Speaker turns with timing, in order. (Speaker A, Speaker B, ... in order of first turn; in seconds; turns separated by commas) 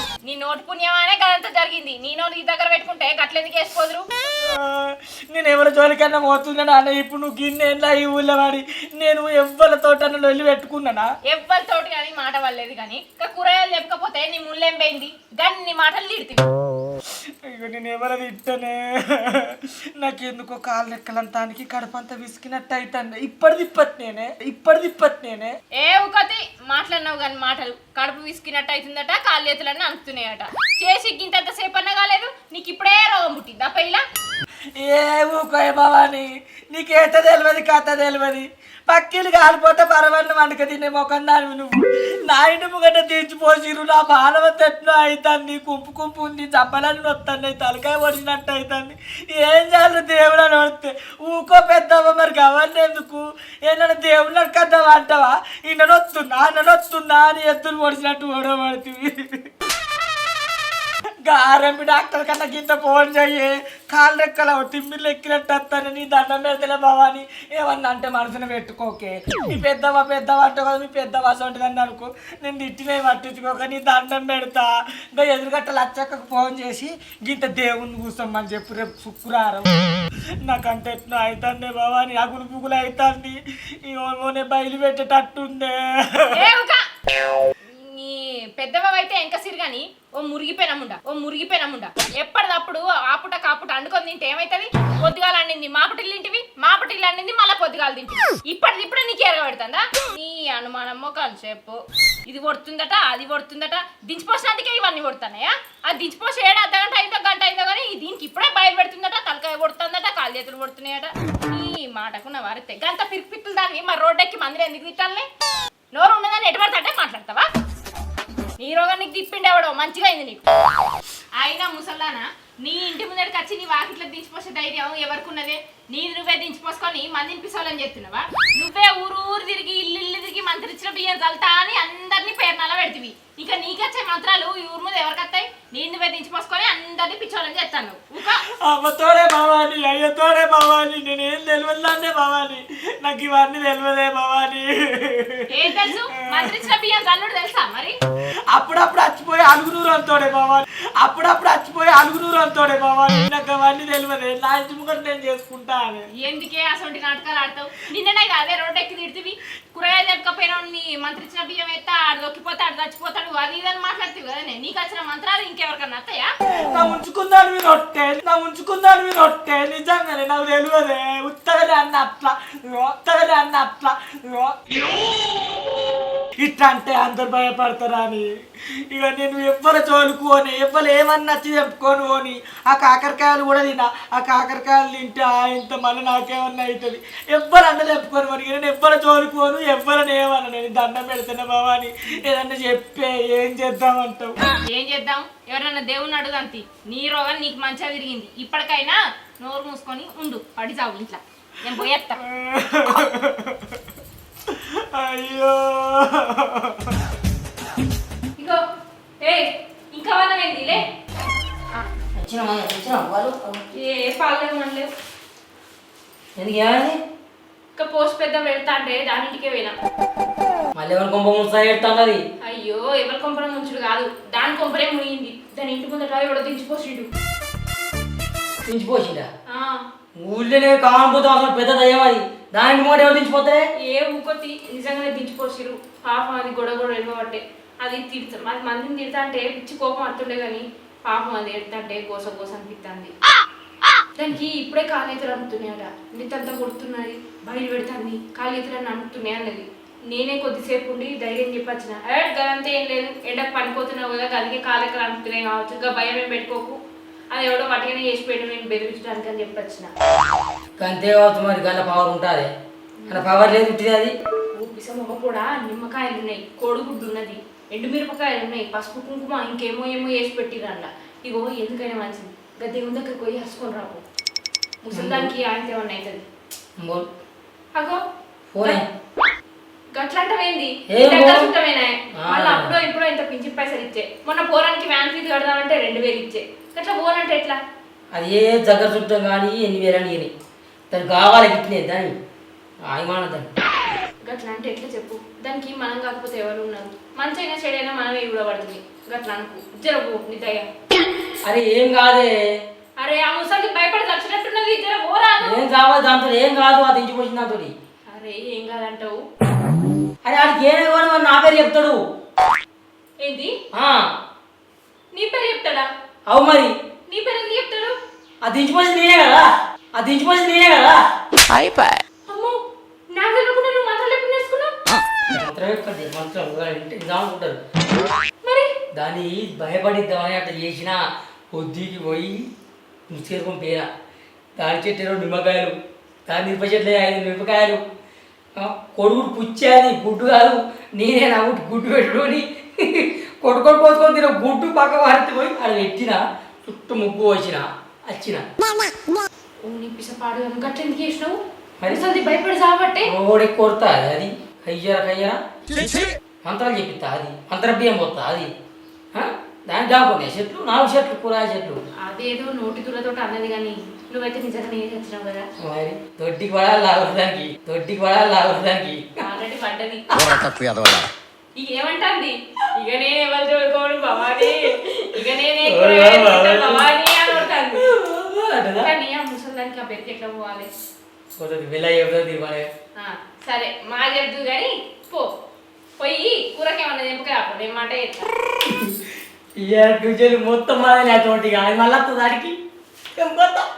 Speaker A: 0.3-4.1, Speaker B: 4.5-11.1, Speaker A: 11.3-16.4, Speaker B: 17.1-25.6, Speaker A: 25.8-34.0, Speaker B: 34.8-59.5, Speaker B: 61.3-86.5, Speaker A: 86.3-86.8, Speaker A: 87.6-115.3, Speaker A: 115.9-117.5, Speaker A: 118.6-120.4, Speaker A: 121.4-138.4, Speaker B: 138.2-146.7, Speaker A: 145.5-147.9, Speaker B: 148.5-156.1, Speaker A: 156.2-166.3, Speaker B: 166.6-174.7, Speaker B: 176.4-178.3, Speaker B: 178.9-194.4, Speaker A: 194.6-202.2, Speaker B: 202.2-203.8, Speaker B: 204.5-206.9, Speaker A: 209.2-210.9, Speaker C: 212.2-213.6, Speaker A: 213.8-214.9, Speaker C: 216.4-217.0, Speaker A: 217.8-219.7, Speaker C: 220.8-222.2, Speaker A: 222.4-227.1, Speaker C: 228.7-229.3, Speaker A: 229.5-229.8, Speaker C: 230.2-233.7, Speaker A: 233.8-243.1, Speaker A: 244.2-256.8, Speaker A: 257.3-259.9, Speaker C: 260.8-262.5, Speaker A: 263.0-263.4, Speaker C: 263.1-264.1, Speaker A: 264.5-274.0, Speaker A: 274.8-276.2, Speaker C: 274.9-275.3, Speaker C: 276.8-277.1, Speaker A: 277.8-278.0, Speaker C: 278.5-278.9, Speaker A: 279.9-287.6, Speaker C: 280.9-281.5, Speaker C: 282.1-282.7, Speaker C: 288.1-290.3, Speaker C: 290.9-292.1, Speaker C: 292.9-293.5, Speaker A: 294.2-300.7, Speaker C: 301.4-302.6, Speaker A: 303.0-305.6, Speaker C: 305.4-307.7, Speaker A: 308.1-309.2, Speaker C: 310.2-312.0, Speaker A: 313.2-313.6, Speaker C: 313.7-314.1, Speaker A: 315.1-315.9, Speaker C: 316.3-316.7, Speaker A: 317.1-317.9, Speaker C: 318.4-321.0, Speaker A: 322.3-322.6, Speaker A: 323.1-324.7, Speaker C: 325.3-327.6, Speaker A: 328.4-328.7, Speaker C: 328.9-331.0, Speaker C: 331.5-332.4, Speaker C: 333.1-333.9, Speaker C: 334.6-335.8, Speaker C: 336.3-337.8, Speaker C: 338.6-348.4, Speaker A: 349.6-353.1, Speaker C: 353.1-355.9, Speaker C: 356.4-358.5, Speaker C: 359.1-361.8, Speaker A: 362.1-365.5, Speaker C: 365.6-369.2, Speaker A: 369.2-370.3, Speaker C: 370.1-370.9, Speaker A: 371.6-377.9, Speaker C: 375.6-376.9, Speaker C: 377.8-378.9, Speaker A: 378.8-380.7, Speaker C: 381.4-382.7, Speaker A: 383.0-385.3, Speaker A: 386.0-388.3, Speaker C: 388.6-392.6, Speaker C: 393.1-393.7